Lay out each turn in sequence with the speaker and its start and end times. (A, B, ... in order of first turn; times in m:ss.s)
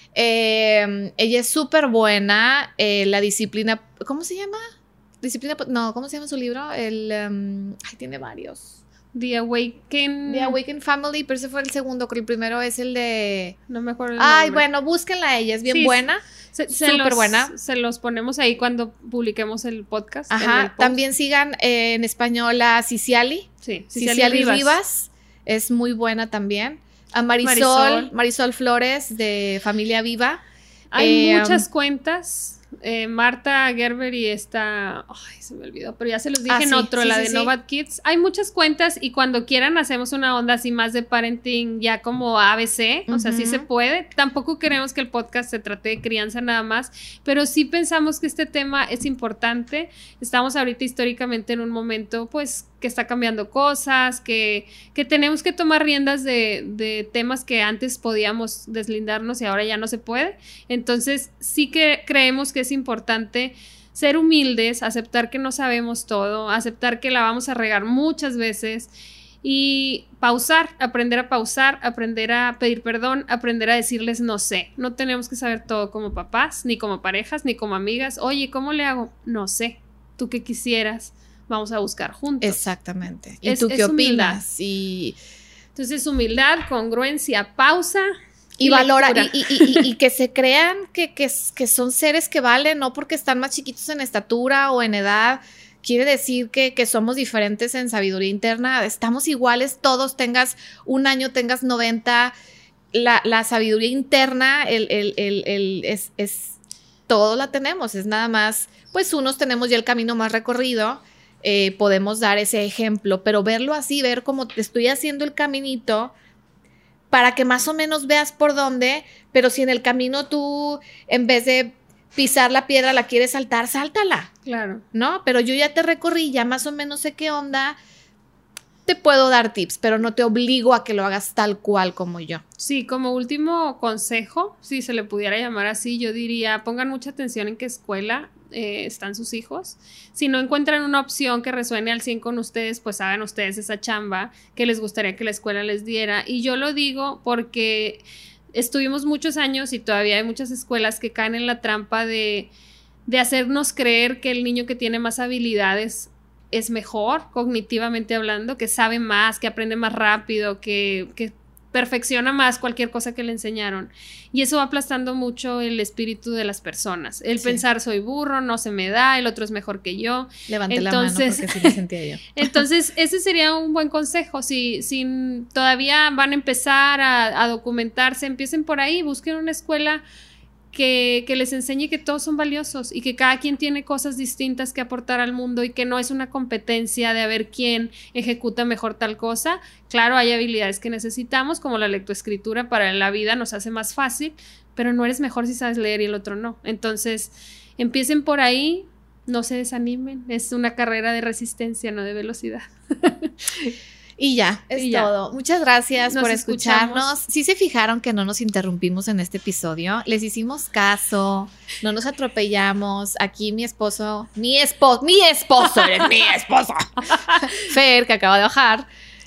0:00.2-0:04.6 A
0:05.2-0:08.8 A
0:09.1-0:10.6 B
0:10.3-0:13.6 A
0:13.7-0:14.6 B
0:14.2-0:17.5 A
0:15.7-0:16.0 B
0:16.6-0:21.0 B
0:20.3-0:30.4 A
0:23.6-0:24.8 B
0:27.4-0:28.1 B
0:30.9-1:08.9 B
0:31.0-0:31.7 A
0:36.5-0:37.5 A
0:43.1-0:43.7 A
1:09.4-1:22.6 B
1:22.4-1:25.2 A
1:23.4-1:24.4 B
1:25.8-1:28.1 B
1:28.6-1:42.3 A
1:28.6-1:29.9 B
1:42.9-1:46.6 A
1:47.1-1:56.1 A
1:57.1-2:04.3 A
2:04.5-2:04.8 B
2:04.9-2:07.8 A
2:08.9-2:12.4 A
2:12.6-2:28.0 B
2:28.6-2:32.5 B
2:33.1-2:51.8 B
2:50.5-2:52.6 A
2:52.4-3:00.0 B
3:00.7-3:23.7 B
3:24.2-3:36.9 A
3:24.8-3:25.1 B
3:26.1-3:27.1 B
3:37.0-3:37.7 B
3:37.5-3:38.9 A